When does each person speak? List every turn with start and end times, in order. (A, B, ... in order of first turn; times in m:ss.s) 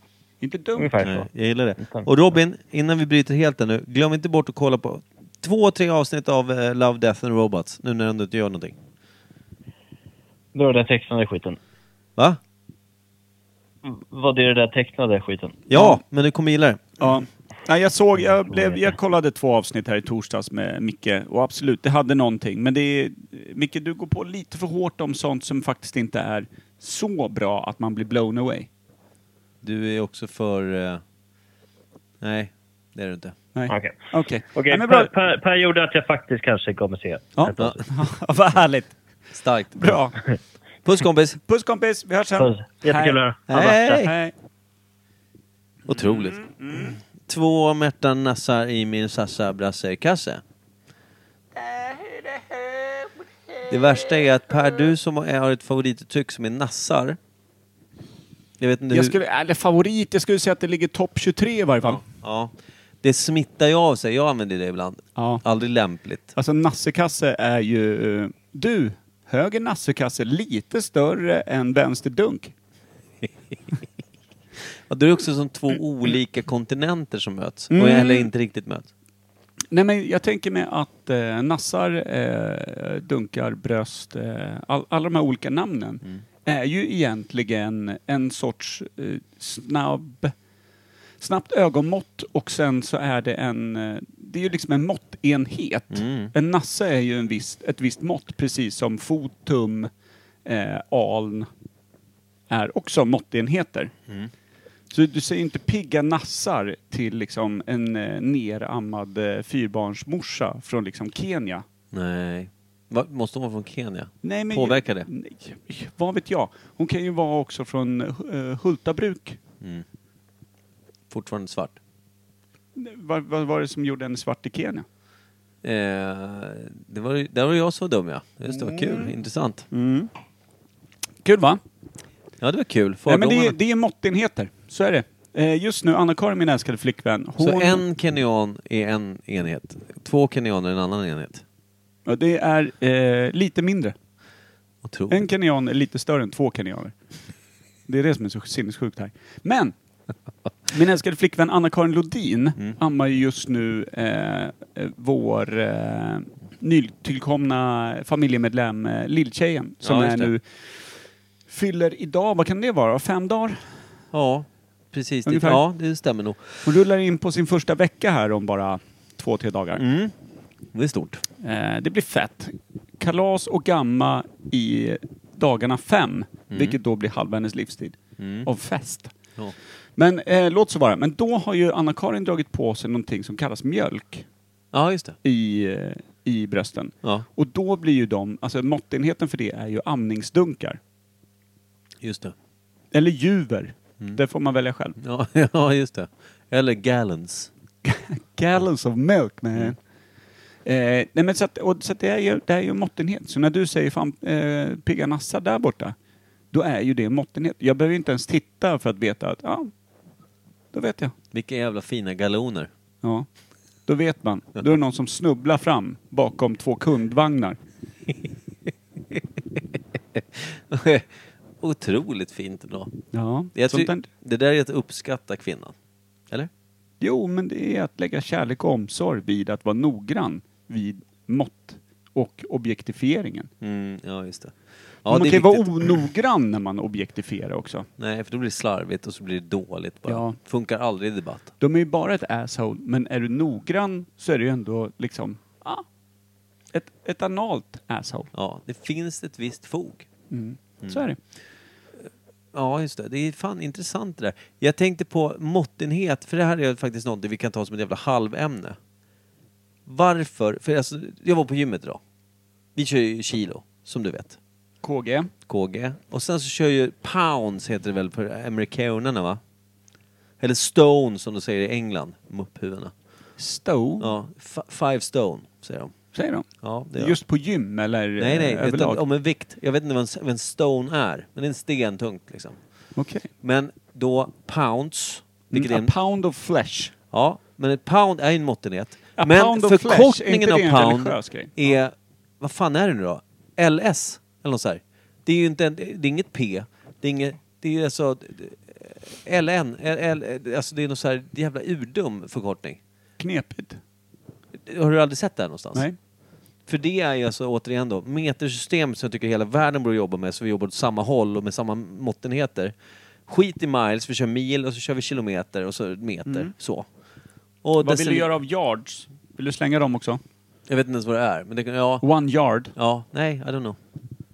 0:00.4-0:01.0 A
0:00.8-0:01.3 B
0:01.0-0:08.8 C
0:01.8-0:02.1 B
0:10.5-0:11.6 B
0:13.8-0:15.6 B
0:15.7-0:16.9 C
0:15.7-0:16.0 A
0:17.0-0:28.7 A
0:18.5-0:18.8 B
0:29.6-0:31.0 C
0:32.2-0:33.3 C
0:33.5-0:35.1 A
0:33.7-0:33.9 B
0:34.5-0:37.8 B
0:37.4-0:39.0 A
0:39.3-0:40.0 C
0:39.8-0:40.2 A
0:40.8-0:41.4 C
0:41.5-0:43.2 A
0:42.4-0:44.0 B
0:43.5-0:44.1 C
0:43.8-0:44.3 A
0:45.8-0:50.4 C
0:45.9-0:46.9 A
0:51.6-0:52.7 A
0:53.7-0:57.2 C
0:58.6-0:59.2 C
0:58.9-1:02.0 A
1:01.8-1:06.3 C
1:05.2-1:05.4 A
1:06.3-1:12.5 A
1:14.9-1:18.9 C
1:17.7-1:18.3 A
1:19.7-1:30.3 A
1:31.2-1:39.9 A
1:35.9-1:36.3 C
1:40.4-1:41.5 A
1:42.5-1:43.9 A
1:44.9-1:51.6 A
1:51.9-1:55.1 C
1:54.2-1:59.4 A
2:01.1-2:01.8 C
2:02.8-2:04.8 A
2:05.6-2:09.7 C
2:08.5-2:09.1 A
2:09.7-2:10.1 A
2:11.2-2:11.6 A
2:12.4-2:13.6 C
2:13.0-2:17.8 A
2:17.4-2:21.4 C
2:22.0-2:23.9 A
2:24.8-2:25.3 C
2:25.1-2:26.9 A
2:27.9-2:29.7 A
2:30.7-2:40.8 A
2:39.8-2:40.3 C
2:41.5-2:43.6 A
2:44.1-2:46.7 C
2:45.2-2:45.6 A
2:46.6-2:49.8 A
2:49.8-2:50.1 C
2:50.7-2:51.2 C
2:51.4-2:59.1 A
2:56.5-2:56.8 C
2:58.2-2:58.5 C
3:00.0-3:04.2 A
3:04.7-3:05.2 C
3:05.2-3:10.8 A
3:12.0-3:12.3 C
3:12.9-3:15.0 A
3:15.0-3:17.5 C
3:17.8-3:19.8 A
3:20.6-3:25.9 A
3:26.5-3:29.7 A
3:30.7-3:31.1 A
3:31.3-3:32.7 C
3:33.8-3:37.6 A
3:39.1-3:42.9 C
3:43.1-3:44.1 A
3:43.5-3:45.7 C
3:47.0-3:53.5 A
3:53.6-3:55.9 C
3:55.1-3:57.9 A
3:58.0-4:01.5 C
4:00.1-4:00.4 A
4:01.6-4:05.8 A
4:06.7-4:08.3 A
4:08.3-4:10.1 C
4:10.3-4:11.2 A
4:12.5-4:18.8 C
4:19.8-4:22.0 C
4:22.7-4:24.4 C
4:24.8-4:25.3 A
4:25.5-4:29.4 C
4:30.4-4:32.9 C
4:33.4-4:34.1 A
4:34.0-4:35.9 C
4:36.1-4:39.0 A
4:36.6-4:37.2 C
4:38.2-4:42.6 C
4:43.0-4:43.3 A
4:43.4-4:45.9 C
4:45.5-4:46.9 A
4:47.1-5:02.8 C
4:49.2-4:51.8 A
5:03.2-5:03.8 A
5:04.5-5:05.8 C
5:06.7-5:12.7 C
5:13.2-5:16.9 C
5:16.2-5:16.5 A
5:17.6-5:18.3 C
5:17.8-5:20.2 A
5:20.7-5:22.0 C
5:22.0-5:22.7 A
5:22.7-5:23.8 C